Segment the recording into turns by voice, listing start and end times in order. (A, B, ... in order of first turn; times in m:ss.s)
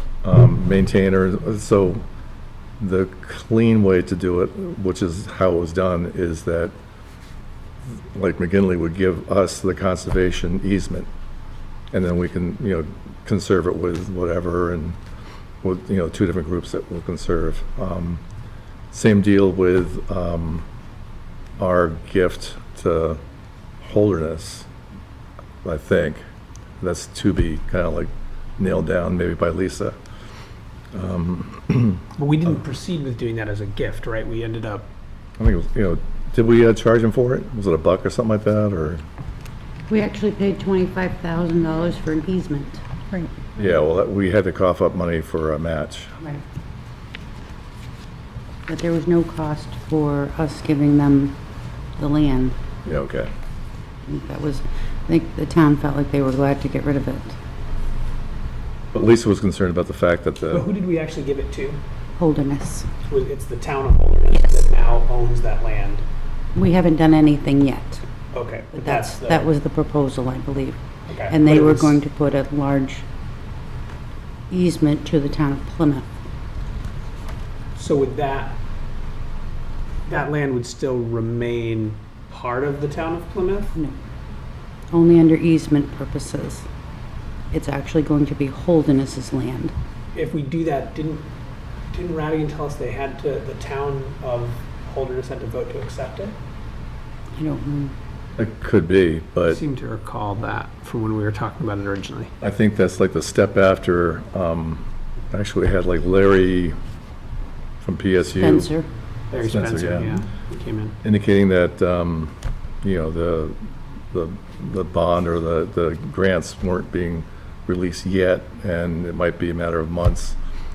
0:00.2-0:02.0 A
0:02.8-0:06.7 A
0:07.9-0:11.1 A
0:11.9-0:15.0 A
0:15.6-0:18.2 A
0:18.9-0:20.6 A
0:21.6-0:23.2 A
0:23.8-0:24.7 A
0:25.6-0:26.2 A
0:26.8-0:30.0 A
0:30.9-0:32.0 A
0:32.2-0:34.9 B
0:35.4-0:39.0 A
0:39.9-0:42.8 C
0:43.6-0:46.1 A
0:46.2-0:46.4 C
0:48.7-0:51.4 C
0:52.0-0:52.6 C
0:52.8-0:53.3 A
0:54.0-0:57.4 C
0:58.9-1:00.7 A
1:00.5-1:01.8 B
1:02.2-1:02.9 C
1:03.1-1:06.0 B
1:04.3-1:04.7 C
1:06.5-1:08.0 C
1:08.3-1:09.5 B
1:08.7-1:13.0 C
1:11.1-1:12.0 B
1:14.5-1:16.1 C
1:17.7-1:18.6 B
1:20.0-1:23.7 B
1:24.9-1:26.7 C
1:27.5-1:29.7 C
1:30.1-1:31.3 B
1:31.9-1:36.4 B
1:37.3-1:37.9 C
1:38.4-1:39.6 A
1:39.4-1:42.3 B
1:42.4-1:46.8 A
1:47.8-1:48.7 A
1:48.4-1:48.9 C
1:49.3-1:51.0 B
1:49.4-1:50.2 A
1:51.0-2:00.4 A